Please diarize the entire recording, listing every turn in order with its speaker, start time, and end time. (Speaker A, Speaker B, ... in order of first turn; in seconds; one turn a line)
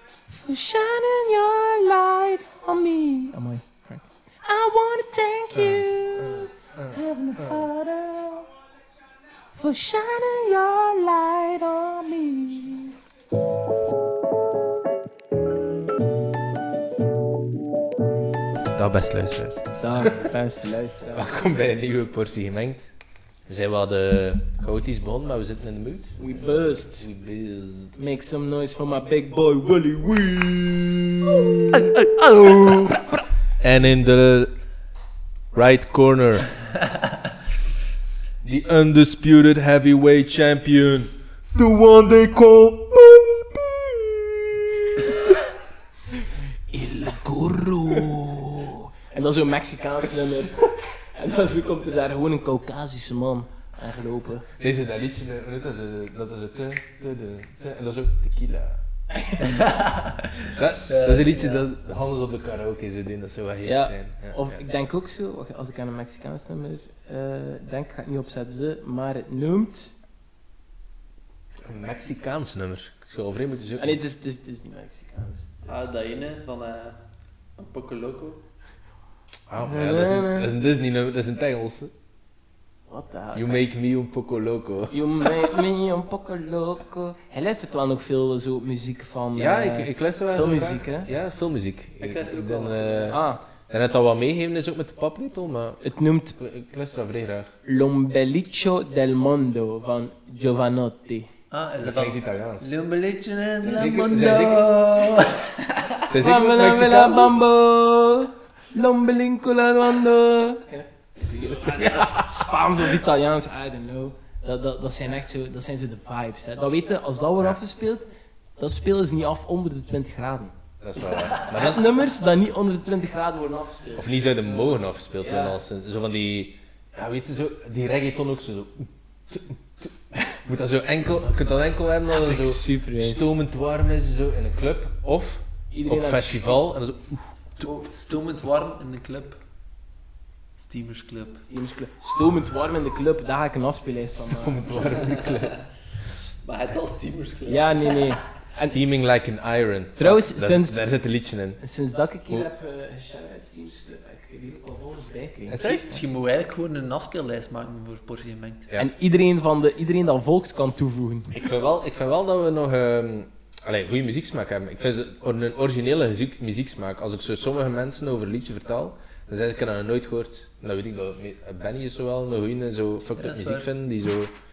Speaker A: 0.3-8.5
Speaker B: 5.5-7.7
Speaker A: 9.5-12.9
Speaker B: 18.7-20.3
Speaker A: 19.8-21.4
Speaker B: 21.1-22.9
Speaker B: 23.5-27.9
Speaker A: 26.2-27.1
Speaker A: 27.9-30.5
Speaker B: 30.3-34.5
Speaker B: 35.5-36.5
Speaker B: 38.4-45.4
Speaker A: 46.7-54.5
Speaker B: 54.5-58.8
Speaker A: 59.1-59.7
Speaker C: 59.4-61.7
Speaker B: 60.5-64.6
Speaker A: 63.6-69.9
Speaker B: 71.6-74.0
Speaker A: 73.8-75.9
Speaker C: 75.7-77.0
Speaker C: 77.6-78.4
Speaker B: 79.5-81.9
Speaker A: 79.6-80.5
Speaker A: 82.9-83.7
Speaker B: 83.3-85.6
Speaker A: 84.9-91.1
Speaker B: 89.3-95.8
Speaker C: 92.0-93.2
Speaker A: 93.1-93.4
Speaker A: 95.8-96.4
Speaker B: 96.3-97.5
Speaker A: 97.6-101.3
Speaker C: 101.5-106.1
Speaker B: 101.8-102.7
Speaker B: 103.6-104.8
Speaker B: 106.1-107.4
Speaker A: 106.2-120.5
Speaker B: 111.6-112.9
Speaker B: 120.8-121.8
Speaker A: 121.1-125.6
Speaker B: 123.9-137.8
Speaker A: 132.1-133.3
Speaker A: 135.7-136.6
Speaker C: 137.6-139.4
Speaker C: 140.6-141.4
Speaker A: 141.5-145.2
Speaker B: 144.2-145.6
Speaker C: 145.2-145.6
Speaker C: 146.4-148.1
Speaker A: 147.5-148.8
Speaker B: 148.6-151.6
Speaker A: 150.0-150.8
Speaker A: 151.6-155.6
Speaker B: 155.5-156.0
Speaker C: 155.5-158.7
Speaker A: 158.8-161.3
Speaker B: 161.3-174.3
Speaker C: 173.2-173.7